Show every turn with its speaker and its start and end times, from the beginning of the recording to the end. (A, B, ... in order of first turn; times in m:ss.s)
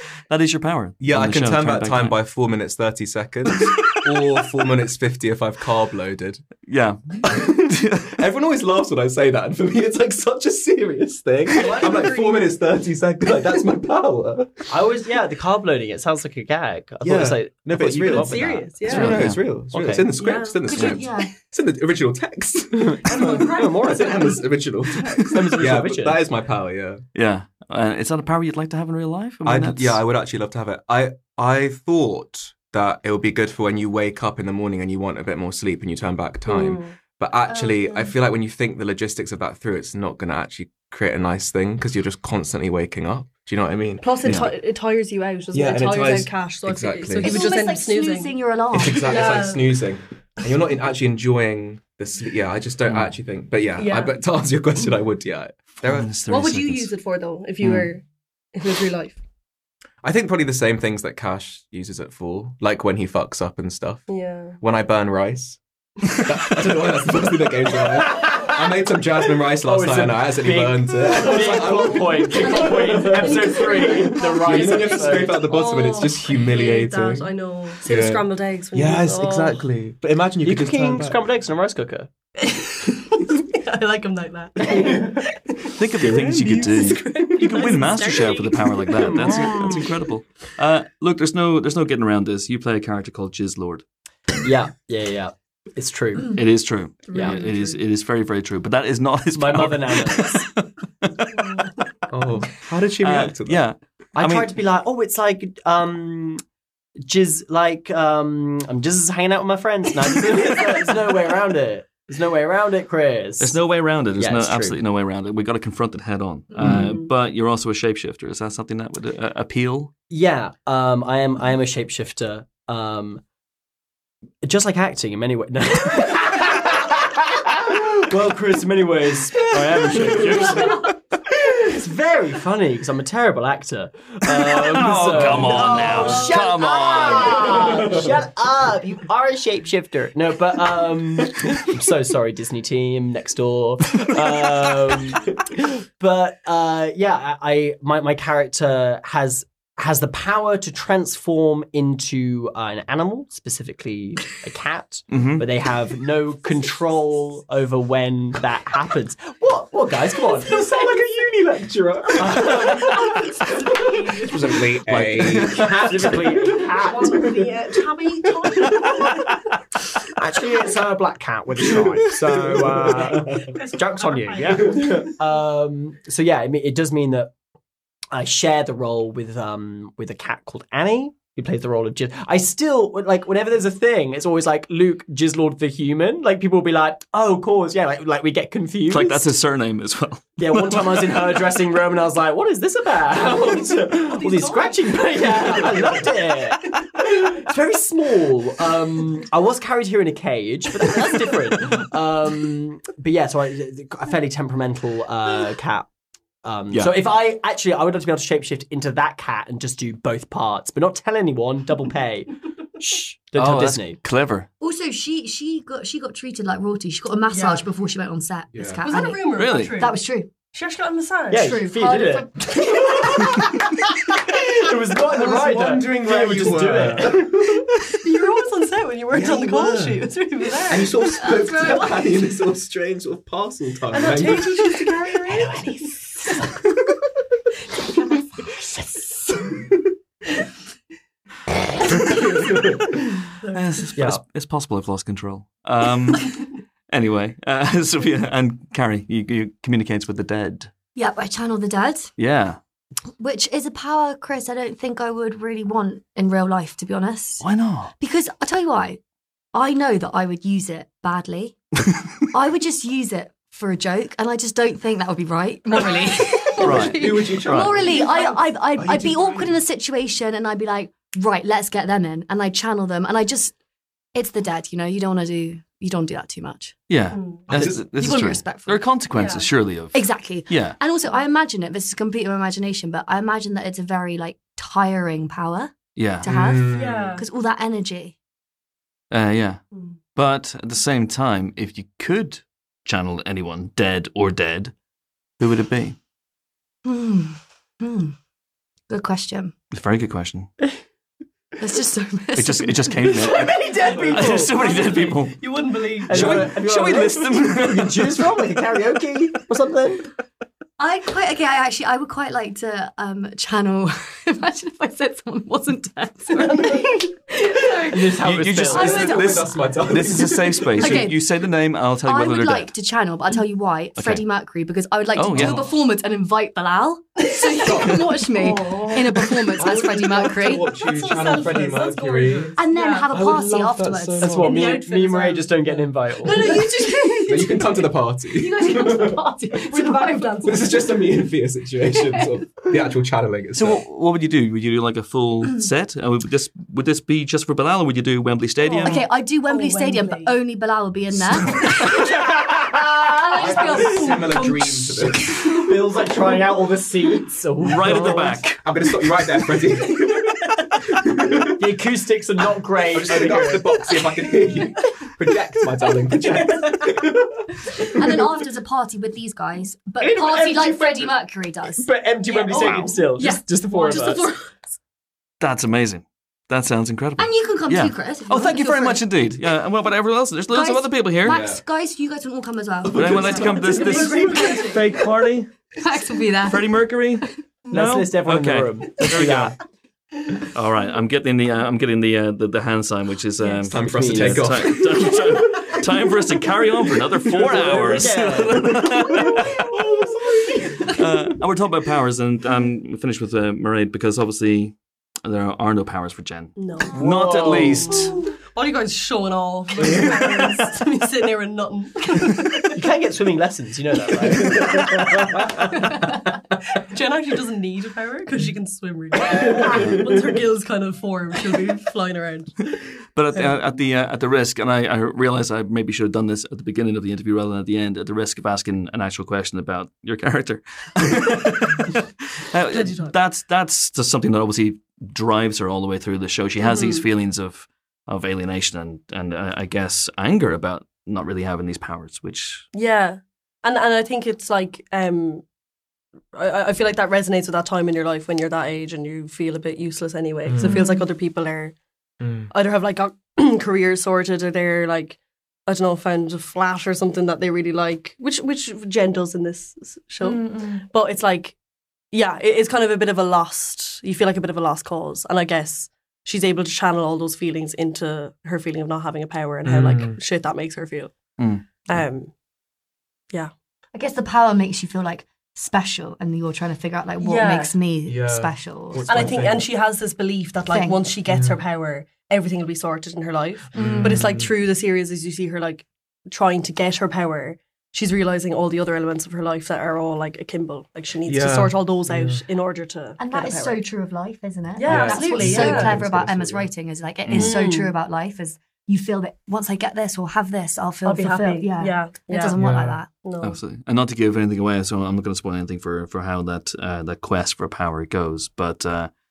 0:00.3-0:02.2 A
0:01.0-0:06.4 B
0:06.7-0:08.1 A
0:07.2-0:14.7 B
0:11.6-0:12.1 C
0:11.6-0:12.6 D
0:14.7-0:20.1 C
0:17.0-0:27.0 B
0:18.0-0:19.2 D
0:18.9-0:19.4 A
0:20.1-0:20.6 D
0:20.7-0:21.3 E
0:20.7-0:21.0 A
0:22.7-0:24.3 C
0:23.1-0:24.4 D
0:25.2-0:26.3 C
0:27.1-0:30.0 A
0:29.4-0:44.5 B
0:36.5-0:36.9 D
0:37.5-0:38.1 E
0:44.0-0:49.8 D
0:44.2-0:44.5 A
0:45.5-0:47.5 B
0:47.2-0:49.5 E
0:48.7-0:56.2 B
0:53.8-0:54.2 D
0:55.8-0:56.9 A
0:56.3-0:59.2 D
0:57.6-0:57.9 A
1:00.0-1:04.1 B
1:04.1-1:04.6 D
1:04.6-1:17.3 B
1:07.9-1:08.5 C
1:09.6-1:15.4 C
1:11.1-1:19.6 D
1:17.8-1:21.2 B
1:20.4-1:22.1 C
1:22.4-1:25.2 D
1:24.6-1:25.2 C
1:25.8-1:33.8 A
1:26.0-1:27.0 B
1:26.5-1:29.5 D
1:29.0-1:29.9 C
1:34.4-1:36.4 C
1:36.3-1:41.7 A
1:37.1-1:37.8 D
1:37.1-1:37.4 C
1:39.3-1:40.5 C
1:42.1-1:43.6 B
1:43.0-1:44.5 A
1:44.1-1:46.4 C
1:47.0-1:53.6 C
1:53.4-1:59.9 A
1:54.2-1:54.8 C
1:56.7-1:56.9 D
2:00.1-2:03.2 C
2:04.4-2:10.9 C
2:09.8-2:10.7 A
2:11.5-2:25.3 C
2:14.2-2:17.8 A
2:15.4-2:16.3 D
2:26.0-2:40.8 C
2:35.1-2:35.5 A
2:40.4-2:43.1 B
2:42.1-2:43.2 C
2:42.4-2:44.6 D
2:44.1-2:47.5 B
2:44.8-2:47.4 C
2:45.1-2:46.0 A
2:46.4-2:49.2 D
2:48.4-2:48.7 B
2:50.2-2:57.3 C
2:51.8-2:53.5 B
2:52.8-2:55.2 D
2:54.6-2:55.0 B
2:58.1-3:09.3 C
3:08.9-3:11.4 A
3:10.4-3:25.9 C
3:13.2-3:16.4 D
3:26.4-3:34.0 C
3:26.7-3:27.0 A
3:33.4-3:34.5 A
3:34.6-3:40.3 E
3:37.3-3:37.6 D
3:38.5-3:38.8 B
3:38.8-3:40.0 D
3:39.3-3:39.8 A
3:40.5-3:41.7 D
3:41.3-3:43.4 C
3:41.3-3:43.2 E
3:44.3-3:47.3 C
3:45.0-3:47.8 B
3:48.0-3:51.1 D
3:49.1-3:54.9 B
3:51.2-3:52.1 E
3:53.9-3:56.0 D
4:03.5-4:10.7 A
4:04.0-4:04.2 C
4:10.9-4:12.1 E
4:12.2-4:12.6 A
4:13.2-4:17.4 E
4:17.4-4:17.9 A
4:18.0-4:19.0 E
4:19.5-4:21.6 E
4:22.3-4:33.5 E
4:26.1-4:28.4 D
4:26.6-4:27.7 A
4:26.9-4:28.1 B
4:28.8-4:29.5 B
4:34.1-4:36.7 E
4:36.9-4:40.8 A
4:37.1-4:37.5 D
4:37.5-4:37.9 B
4:37.5-4:38.9 E
4:39.1-4:39.5 D
4:39.9-4:48.2 E
4:46.0-4:46.3 A
4:46.2-4:47.2 B
4:46.7-4:47.2 D
4:49.1-4:49.6 A
4:50.1-4:54.7 A
4:55.4-4:56.0 A
4:56.8-4:58.1 E
4:58.9-4:59.5 E
4:59.7-5:00.5 A
5:01.6-5:03.1 E
5:02.3-5:05.4 A
5:03.1-5:06.5 D
5:03.3-5:04.6 C
5:06.0-5:10.1 C
5:06.1-5:08.4 A
5:10.8-5:19.6 E
5:16.3-5:17.1 D
5:17.9-5:19.2 C
5:18.2-5:22.7 A
5:18.6-5:21.0 B
5:20.8-5:21.2 E
5:22.0-5:30.7 E
5:24.0-5:24.2 A
5:25.2-5:25.7 A
5:27.6-5:29.0 B
5:28.4-5:29.0 D
5:29.6-5:34.6 B
5:30.6-5:33.1 D
5:32.6-5:34.6 E
5:34.2-5:36.5 C
5:34.4-5:37.7 D
5:36.3-5:37.7 E
5:37.3-5:39.2 B
5:38.3-5:40.7 E
5:39.6-5:40.9 D
5:40.4-5:43.8 B
5:43.5-5:49.0 A
5:48.6-5:50.4 D
5:48.8-5:52.2 E
5:53.1-5:54.6 E
5:53.2-5:54.1 C
5:53.4-5:55.5 B
5:53.4-5:54.5 D
5:55.4-5:58.4 C
5:57.6-5:58.6 A
5:57.9-6:00.3 B
6:00.9-6:01.7 B
6:01.6-6:03.8 C
6:02.9-6:07.9 B
6:07.9-6:14.3 E
6:10.0-6:11.1 C
6:11.7-6:14.3 C
6:12.4-6:14.6 D
6:12.6-6:12.9 A
6:15.4-6:21.4 A
6:17.2-6:19.0 E
6:20.5-6:24.8 E
6:21.2-6:21.6 B
6:22.9-6:23.4 B
6:22.9-6:25.5 A
6:23.3-6:24.8 D
6:23.9-6:24.4 C
6:25.8-6:26.7 E
6:26.4-6:29.6 A
6:27.7-6:29.6 C
6:30.5-6:39.7 A
6:33.7-6:35.2 B
6:33.7-6:34.6 C
6:37.3-6:39.1 C
6:39.8-6:40.9 D
6:40.8-6:48.1 A
6:46.6-6:52.8 D
6:46.9-6:48.1 C
6:52.7-6:55.4 C
6:55.7-6:56.2 D
6:56.9-7:02.5 D
6:59.7-7:00.1 A
7:03.1-7:22.7 A
7:12.7-7:13.1 D
7:16.6-7:17.0 D
7:22.7-7:25.4 D
7:26.3-7:31.8 D
7:30.4-7:30.8 B
7:30.8-7:31.0 E
7:32.2-7:32.5 B
7:32.5-7:41.6 D
7:42.1-7:51.1 D
7:49.6-7:50.2 B
7:51.4-7:52.0 A
7:51.9-7:52.3 D
7:53.9-7:59.4 E
7:57.2-7:57.7 D
7:58.0-7:59.7 B
7:59.0-8:13.8 D
8:00.7-8:01.0 E
8:01.3-8:01.6 B
8:03.7-8:04.5 B
8:11.2-8:12.4 B
8:13.2-8:23.1 E
8:14.7-8:16.0 D
8:14.9-8:16.7 B
8:17.3-8:17.5 A
8:17.3-8:17.9 D
8:21.0-8:22.6 D
8:22.5-8:23.0 B
8:23.2-8:23.6 D
8:23.4-8:29.1 A